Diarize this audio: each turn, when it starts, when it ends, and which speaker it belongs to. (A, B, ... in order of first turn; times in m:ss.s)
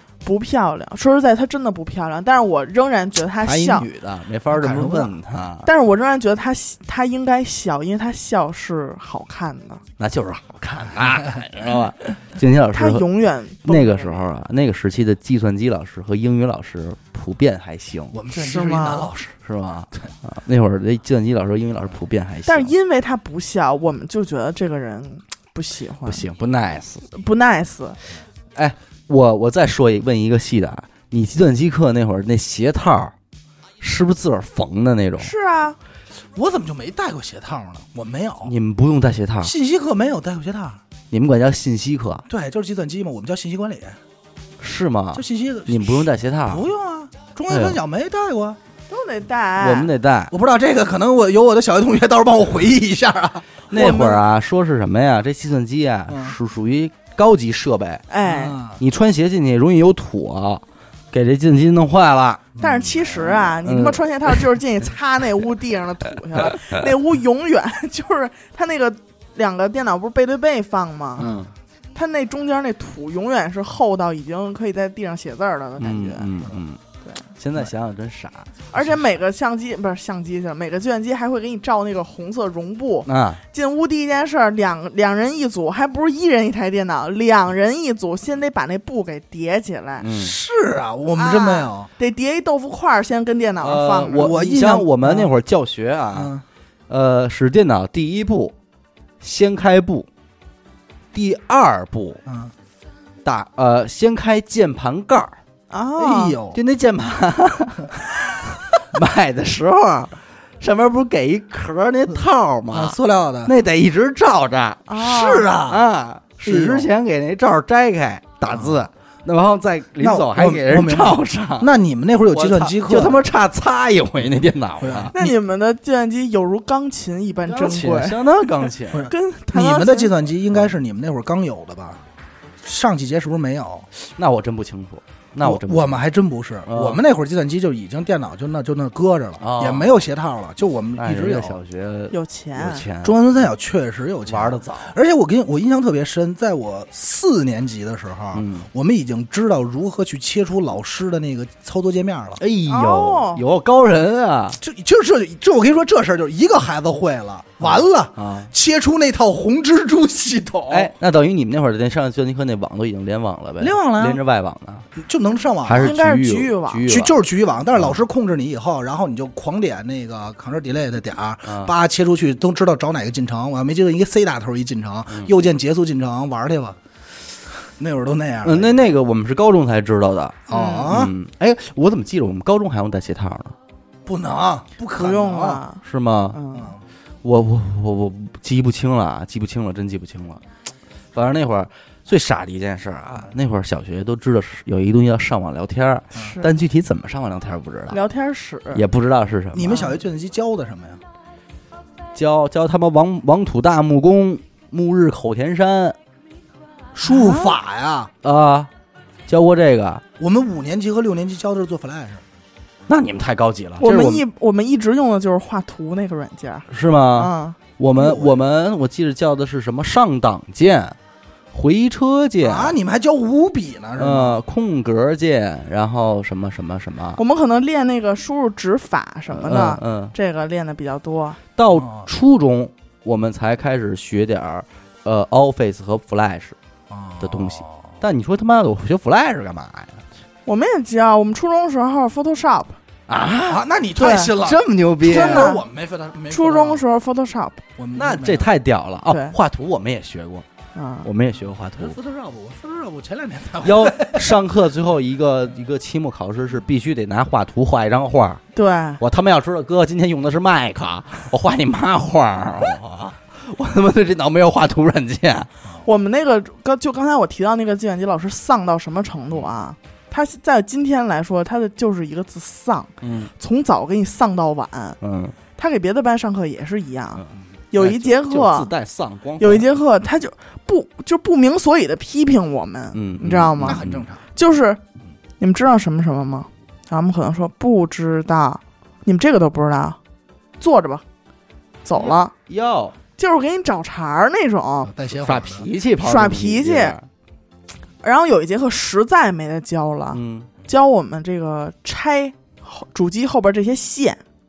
0:00.2-0:03.9 A
0:03.4-0:05.7 B
0:04.5-0:05.1 C
0:05.6-0:09.8 A
0:10.0-0:13.1 B
0:12.7-0:14.2 A
0:13.6-0:18.2 B
0:18.1-0:19.4 C
0:18.3-0:19.1 A
0:19.4-0:22.7 B
0:22.5-0:26.2 A
0:26.0-0:27.0 B
0:27.1-0:28.0 A
0:28.6-0:33.1 B
0:33.8-0:35.3 B
0:35.2-0:35.8 A
0:36.4-0:38.5 C
0:38.4-0:39.5 B
0:39.4-0:40.8 C
0:41.1-0:42.3 B
0:42.3-0:44.0 C
0:44.6-0:46.6 B
0:45.1-0:48.6 C
0:47.5-0:47.8 B
0:48.9-0:49.9 A
0:49.6-0:50.3 B
0:50.3-0:53.9 C
0:53.7-0:58.0 B
0:53.7-0:54.2 A
0:56.1-0:56.4 C
0:58.1-0:58.6 A
0:58.2-0:58.8 C
0:58.8-1:02.5 B
1:02.6-1:02.9 C
1:02.6-1:11.3 A
1:03.5-1:04.4 B
1:11.2-1:11.5 B
1:12.0-1:16.3 A
1:15.8-1:16.8 B
1:17.4-1:18.6 B
1:18.7-1:30.1 A
1:23.1-1:23.4 B
1:30.0-1:30.4 B
1:30.1-1:31.9 C
1:31.2-1:35.3 A
1:33.6-1:36.3 B
1:34.2-1:34.8 C
1:36.1-1:36.4 C
1:36.9-1:38.6 B
1:39.2-1:40.1 B
1:41.1-1:42.2 B
1:42.3-1:42.5 C
1:43.2-1:45.4 B
1:45.7-1:46.4 A
1:46.0-1:46.6 C
1:46.5-1:54.9 B
1:52.7-1:53.5 C
1:54.9-1:55.5 A
1:55.0-1:55.8 C
1:55.6-2:01.7 B
1:56.4-1:56.9 C
1:58.5-1:58.8 C
2:00.0-2:03.2 C
2:02.3-2:05.2 B
2:04.8-2:05.3 C
2:05.1-2:08.2 A
2:07.5-2:09.1 B
2:08.9-2:12.0 C
2:09.0-2:10.1 A
2:12.6-2:13.9 C
2:14.0-2:16.0 B
2:15.4-2:21.6 C
2:16.7-2:17.0 B
2:19.4-2:20.0 B
2:21.0-2:23.2 B
2:22.1-2:22.9 A
2:23.0-2:32.4 C
2:24.3-2:25.0 B
2:28.3-2:28.7 B
2:32.4-2:34.6 B
2:32.7-2:33.4 A
2:34.6-2:40.9 C
2:37.6-2:38.5 B
2:40.7-2:44.9 B
2:43.6-2:44.2 C
2:45.0-2:46.0 C
2:45.6-2:47.2 B
2:45.8-2:46.9 A
2:46.9-2:56.8 C
2:47.8-2:48.0 B
2:51.4-2:51.7 B
2:57.8-2:58.8 C
2:58.4-3:03.6 B
3:00.5-3:01.1 C
3:00.5-3:00.9 A
3:04.1-3:05.6 C
3:05.0-3:05.8 A
3:05.8-3:06.4 B
3:06.3-3:06.7 A
3:06.5-3:06.8 C
3:07.2-3:10.4 B
3:11.1-3:18.0 B
3:16.2-3:16.5 A
3:17.9-3:18.8 A
3:18.7-3:20.0 B
3:19.5-3:21.0 C
3:22.1-3:26.0 B
3:27.0-3:28.1 C
3:27.1-3:27.5 A
3:28.2-3:28.7 B
3:29.3-3:30.0 B
3:30.2-3:32.2 C
3:32.9-3:34.2 B
3:33.8-3:37.6 A
3:36.7-3:41.0 B
3:38.0-3:38.4 C
3:41.5-3:42.8 B
3:42.4-3:44.4 C
3:44.0-3:47.2 B
3:47.2-3:51.4 A
3:49.3-3:50.1 B
3:51.6-3:56.6 B
3:51.8-3:52.1 C
3:56.9-3:57.9 C
3:57.2-4:00.0 B
4:00.5-4:02.8 A
4:03.1-4:05.5 B
4:03.5-4:06.8 C
4:04.0-4:04.3 A
4:05.0-4:05.6 A
4:06.3-4:07.6 A
4:07.8-4:08.5 C
4:08.0-4:10.5 B
4:09.1-4:09.4 A
4:10.8-4:11.1 A
4:11.0-4:12.0 B
4:11.8-4:14.4 C
4:13.6-4:18.4 B
4:18.5-4:19.0 A
4:19.0-4:25.5 B
4:25.8-4:35.0 A
4:33.0-4:33.3 B
4:35.0-4:35.4 B
4:35.6-4:38.7 A
4:37.2-4:39.6 B
4:39.4-4:44.8 A
4:42.9-4:44.1 B
4:43.6-4:44.2 C
4:45.4-4:50.0 A
4:50.6-4:51.0 A
4:51.8-4:52.3 A
4:52.0-4:53.0 B
4:53.2-4:54.9 A
4:54.9-4:55.7 C
4:55.2-4:57.1 B
4:56.0-4:57.0 A
4:58.0-5:04.2 A
5:00.1-5:00.5 B